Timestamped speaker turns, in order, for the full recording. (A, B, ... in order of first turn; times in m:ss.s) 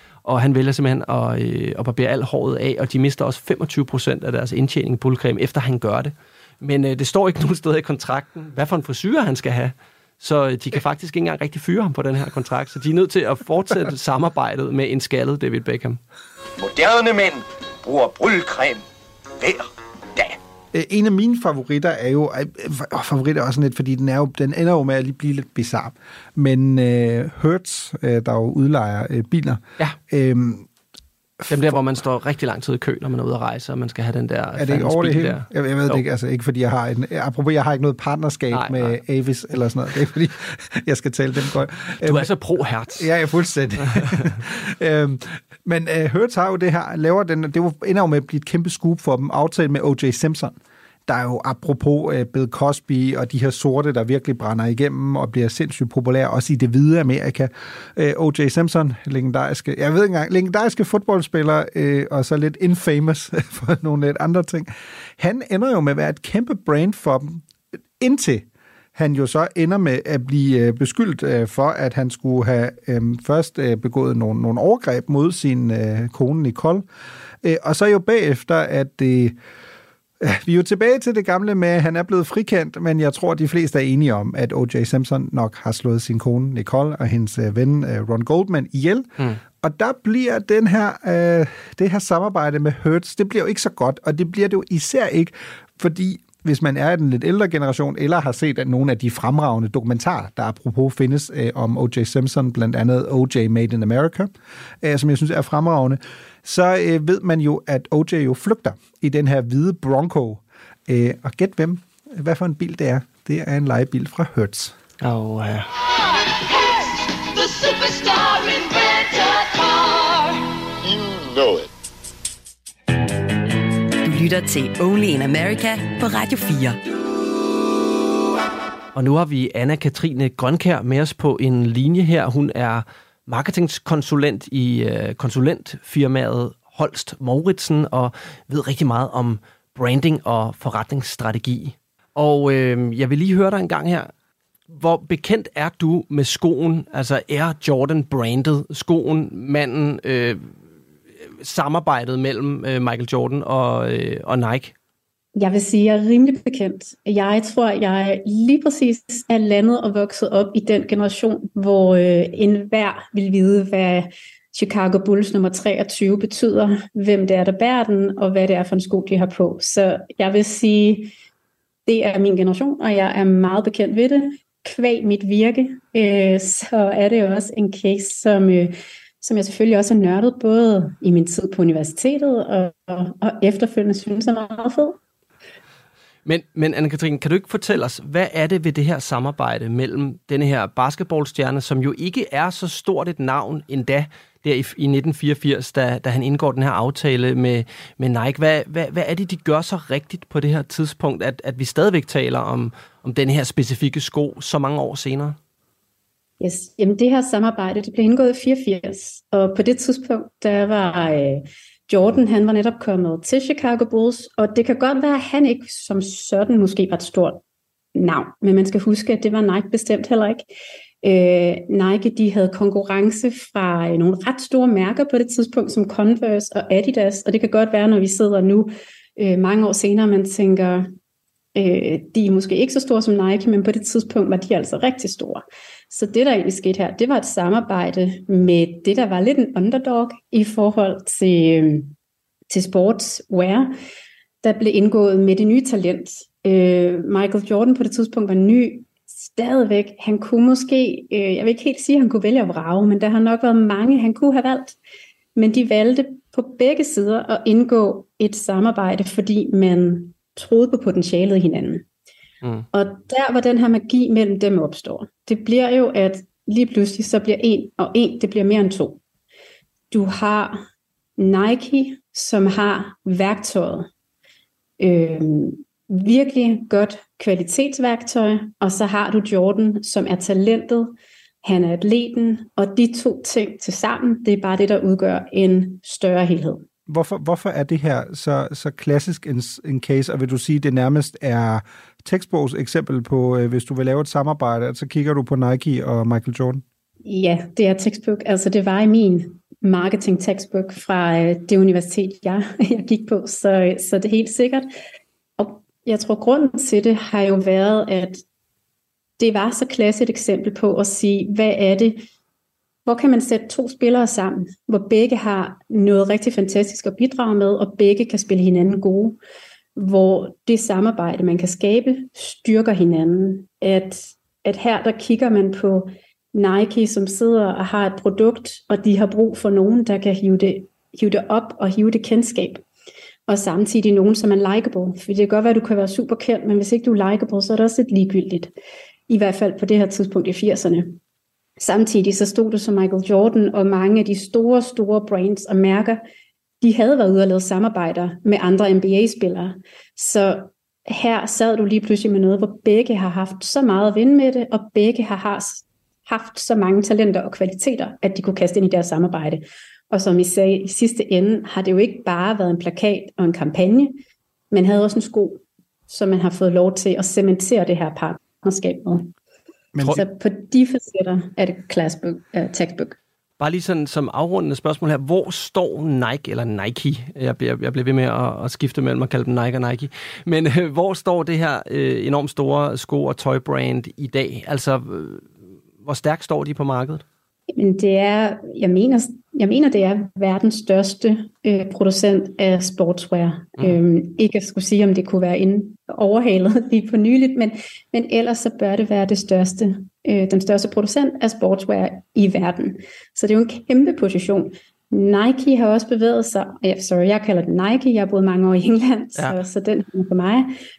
0:00.2-0:16.0 A
0:16.6-0:18.8 B
0:20.7-0:30.7 C
0:31.4-0:31.8 C
0:31.5-0:36.0 A
0:34.6-0:42.3 C
0:38.5-0:39.0 A
0:42.0-0:43.1 A
0:42.9-1:07.4 C
1:08.0-1:16.8 C
1:17.4-1:19.4 C
1:20.2-1:44.3 C
1:44.8-1:54.7 C
1:55.0-1:55.7 A
1:57.4-2:00.2 D
2:04.0-2:06.8 E
2:08.9-2:24.1 A
2:24.7-2:30.5 A
2:31.4-2:34.7 A
2:35.4-2:51.1 F
2:51.9-3:05.0 F
3:06.2-3:25.4 A
3:26.4-3:37.4 F
3:37.9-3:40.5 F
3:41.0-3:50.9 F
3:51.5-4:01.9 F
4:02.5-4:03.7 F
4:04.4-4:14.8 F
4:15.4-4:21.8 F
4:22.7-4:29.0 F
4:29.9-4:30.6 F
4:31.2-4:33.9 F
4:34.8-4:46.6 F
4:46.9-4:56.6 C
4:57.0-5:04.7 F
5:05.4-5:08.2 F
5:09.2-5:12.0 F
5:12.8-5:19.2 F
5:19.8-5:32.6 F
5:33.3-5:38.5 F
5:39.1-5:41.0 F
5:41.6-5:46.0 F
5:46.6-6:04.0 F
6:04.5-6:09.1 F
6:09.7-6:10.0 C
6:09.8-6:13.0 F
6:13.4-6:25.3 A
6:25.8-6:27.0 A
6:27.5-6:50.5 F